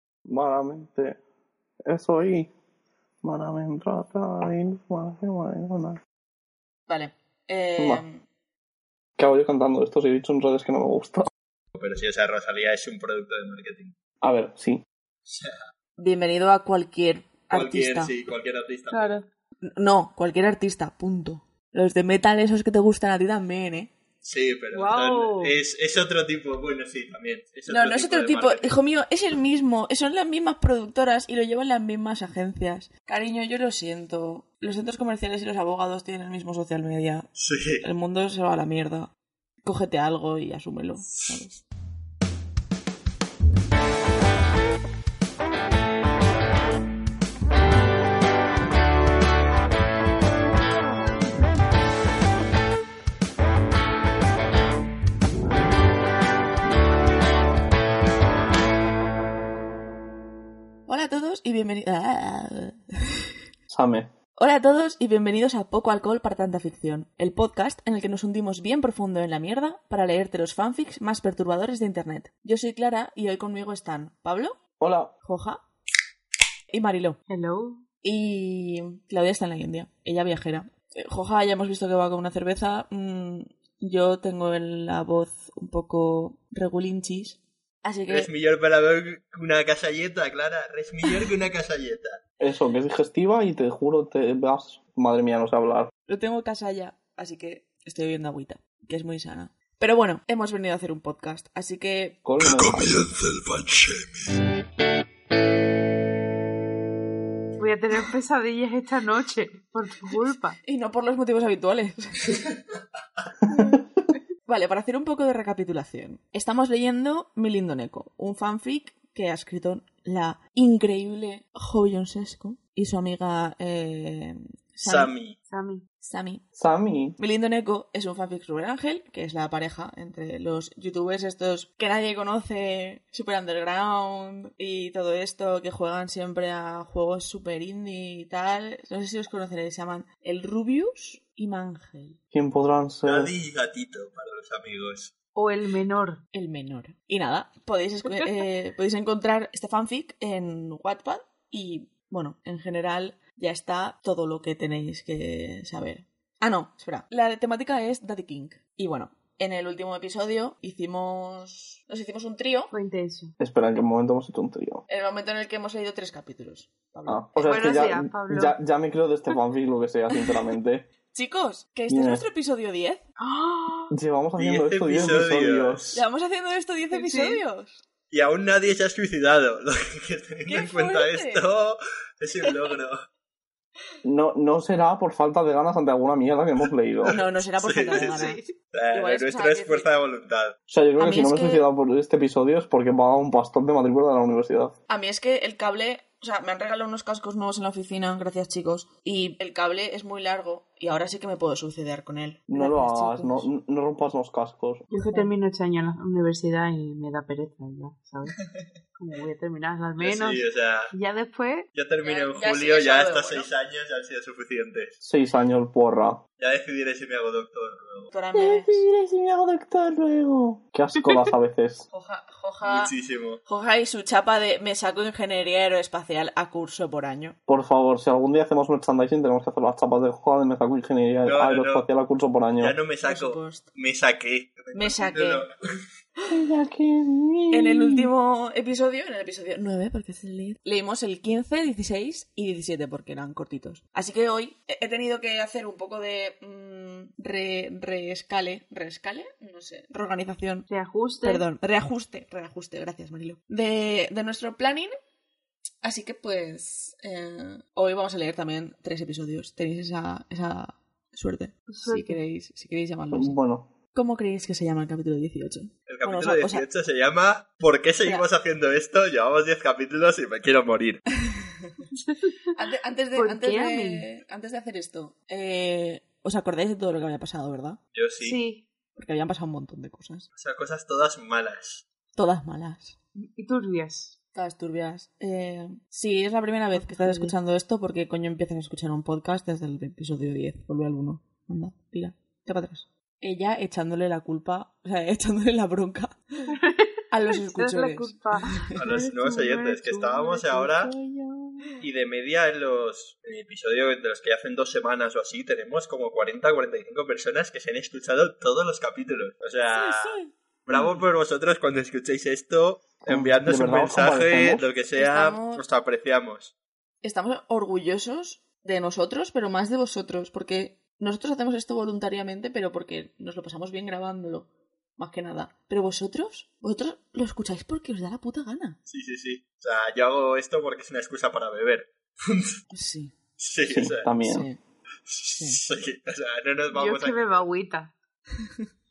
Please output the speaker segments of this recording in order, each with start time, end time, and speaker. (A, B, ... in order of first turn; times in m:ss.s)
0:00.2-0:01.2 A
0:01.8-0:02.5 A
0:03.2-0:06.0 A
0:06.9-0:08.2 B
0:07.8-0:08.0 A
0:09.2-0:11.3 A
0:11.7-0:13.9 C
0:14.2-0:14.8 A
0:15.2-0:15.6 C
0:16.0-0:18.1 B
0:17.5-0:19.2 C
0:18.9-0:19.2 D
0:19.6-0:23.9 B
0:24.2-0:28.8 C
0:24.7-0:25.6 D
0:27.7-0:37.3 B
0:37.4-0:37.8 C
0:37.8-0:39.1 B
0:39.6-0:41.6 B
1:00.9-1:03.3 B
1:03.7-1:04.1 A
1:04.4-1:14.6 B
1:14.8-1:15.1 A
1:15.2-1:15.6 B
1:16.7-1:17.2 B
1:17.3-1:17.8 D
1:18.0-1:28.3 B
1:28.1-1:32.2 C
1:32.4-1:35.9 A
1:36.1-1:42.2 B
1:42.2-1:43.1 A
1:42.4-1:44.4 C
1:47.6-1:50.6 D
1:50.6-1:52.4 B
1:54.4-2:05.1 B
2:04.8-2:05.4 C
2:05.5-2:05.8 D
2:06.0-2:06.4 B
2:06.6-2:07.2 A
2:07.2-2:22.2 B
2:22.3-2:23.3 A
2:23.0-2:25.1 C
2:25.3-2:26.2 D
2:26.3-2:42.7 B
2:42.7-2:43.3 D
2:43.4-2:44.8 A
2:44.9-2:47.5 B
2:47.1-2:50.9 A
2:47.4-2:48.6 D
2:51.1-2:53.0 B
2:51.9-2:52.2 A
2:53.2-2:53.9 D
2:53.9-2:56.0 A
2:54.4-2:55.9 C
2:55.9-2:57.8 B
2:56.9-2:57.4 D
2:58.1-3:03.0 C
3:00.4-3:01.4 B
3:04.0-3:07.2 A
3:07.0-3:10.6 C
3:07.1-3:09.8 B
3:07.9-3:08.5 D
3:10.7-3:14.7 A
3:11.0-3:11.6 B
3:14.9-3:23.5 B
3:22.5-3:24.9 A
3:24.9-3:25.3 B
3:24.9-3:28.4 D
3:28.9-3:31.7 D
3:30.0-3:30.9 C
3:31.7-3:35.0 C
3:32.0-3:33.5 B
3:35.0-3:36.2 A
3:36.4-3:38.1 C
3:38.1-3:38.8 B
3:38.3-3:41.8 A
3:41.9-3:42.9 B
3:42.6-3:43.4 C
3:43.4-3:47.4 B
3:47.5-3:52.8 A
3:51.2-3:51.8 C
3:52.6-3:55.5 C
3:53.0-3:53.7 B
3:54.7-3:55.5 B
3:56.3-3:58.1 A
3:57.5-4:10.7 B
4:10.7-4:11.4 D
4:11.2-4:14.9 B
4:15.8-4:23.4 B
4:21.7-4:22.2 D
4:23.1-4:23.7 A
4:23.9-4:26.6 B
4:25.9-4:31.0 C
4:31.9-4:32.5 D
4:32.5-4:37.8 B
4:33.1-4:34.0 D
4:37.9-4:38.4 C
4:38.2-4:38.6 D
4:39.0-4:40.3 B
4:40.3-4:41.8 C
4:42.1-4:43.0 B
4:43.2-4:44.2 D
4:44.3-4:56.5 B
4:46.7-4:47.4 D
4:56.6-5:00.8 D
4:57.1-4:58.7 B
4:58.7-5:00.9 C
5:00.8-5:01.8 B
5:01.8-5:16.5 C
5:09.6-5:11.0 B
5:13.1-5:14.6 A
5:14.9-5:15.6 B
5:17.0-5:28.8 B
5:28.9-5:32.6 C
5:32.7-5:33.1 B
5:33.4-5:34.1 C
5:33.6-5:34.4 A
5:34.2-5:34.6 B
5:35.1-5:37.2 C
5:35.3-5:35.6 B
5:36.7-5:37.9 D